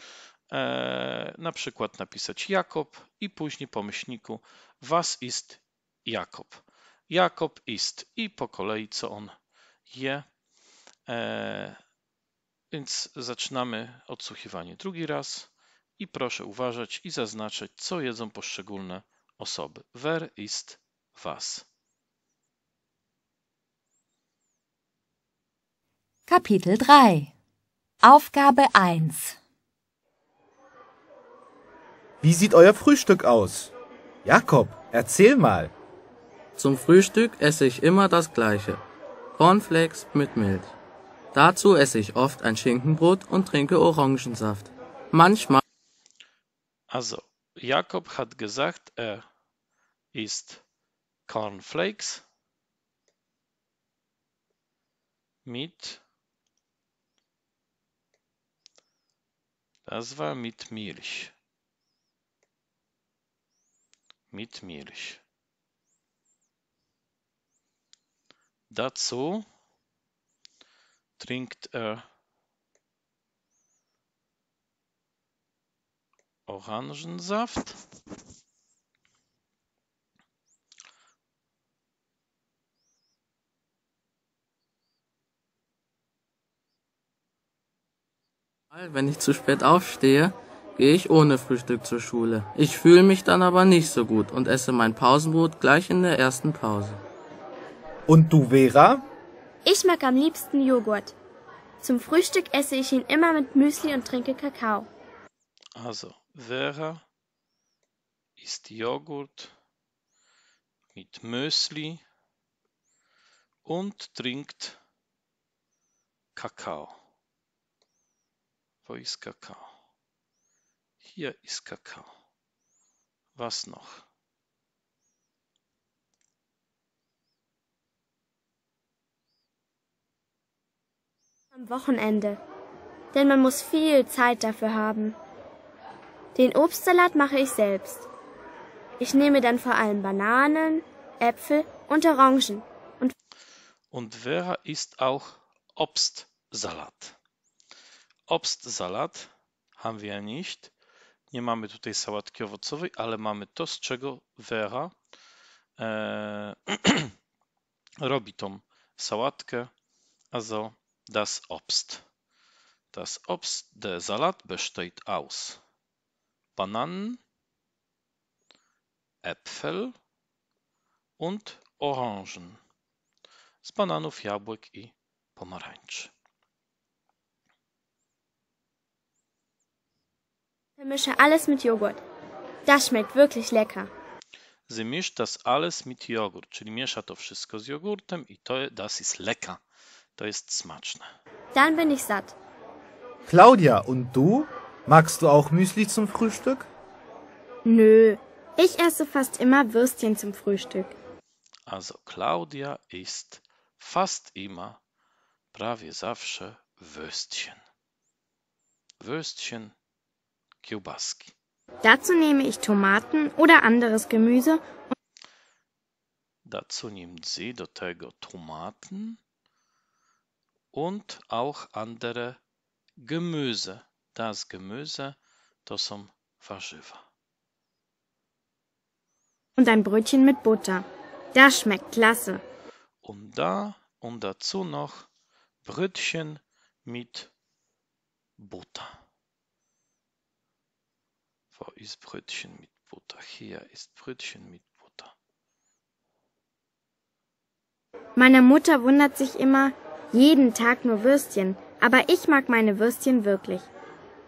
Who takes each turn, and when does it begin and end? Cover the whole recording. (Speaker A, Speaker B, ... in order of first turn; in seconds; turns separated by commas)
Speaker A: 0.5-9.3, Speaker A: 9.9-10.2, Speaker A: 11.1-11.8, Speaker A: 12.7-21.7, Speaker B: 26.3-27.3, Speaker B: 28.0-29.4, Speaker C: 32.2-33.7, Speaker C: 34.2-35.7, Speaker D: 36.5-38.8, Speaker D: 39.4-40.7, Speaker D: 41.3-45.6, Speaker A: 46.9-49.2, Speaker A: 50.1-50.6, Speaker A: 51.3-52.2, Speaker A: 55.4-56.0, Speaker A: 59.9-61.3, Speaker A: 64.3-65.2, Speaker A: 68.7-69.4, Speaker A: 71.2-72.0, Speaker A: 76.5-77.8, Speaker D: 88.7-97.0, Speaker C: 98.1-99.0, Speaker E: 99.6-101.1, Speaker E: 101.8-104.9, Speaker A: 105.8-107.0, Speaker A: 108.4-109.5, Speaker A: 110.9-112.0, Speaker A: 113.7-114.8, Speaker A: 116.3-117.0, Speaker A: 118.8-119.8, Speaker A: 121.0-122.1, Speaker A: 123.3-124.0, Speaker E: 131.5-132.4, Speaker E: 133.1-135.2, Speaker E: 136.3-138.1, Speaker E: 139.0-143.1, Speaker A: 143.9-147.2, Speaker A: 148.3-150.7, Speaker A: 151.3-154.9, Speaker A: 155.8-157.1, Speaker A: 158.0-159.7, Speaker A: 160.3-162.0, Speaker A: 162.9-165.6, Speaker A: 166.6-167.2, Speaker A: 169.2-169.9, Speaker A: 171.2-172.6, Speaker A: 173.6-176.1, Speaker E: 180.8-182.0, Speaker E: 182.7-183.9, Speaker A: 184.7-189.6, Speaker A: 190.2-191.1, Speaker E: 191.5-192.3, Speaker C: 193.2-196.7, Speaker F: 197.6-200.9, Speaker A: 201.7-204.8, Speaker A: 205.5-207.6, Speaker A: 209.0-209.7, Speaker A: 210.6-211.3, Speaker F: 211.8-214.9, Speaker A: 216.4-219.2, Speaker A: 220.7-222.4, Speaker A: 223.0-227.0, Speaker F: 229.6-232.4, Speaker A: 233.0-235.1, Speaker A: 235.6-237.3, Speaker A: 238.4-239.0, Speaker A: 241.5-245.1, Speaker F: 248.2-253.7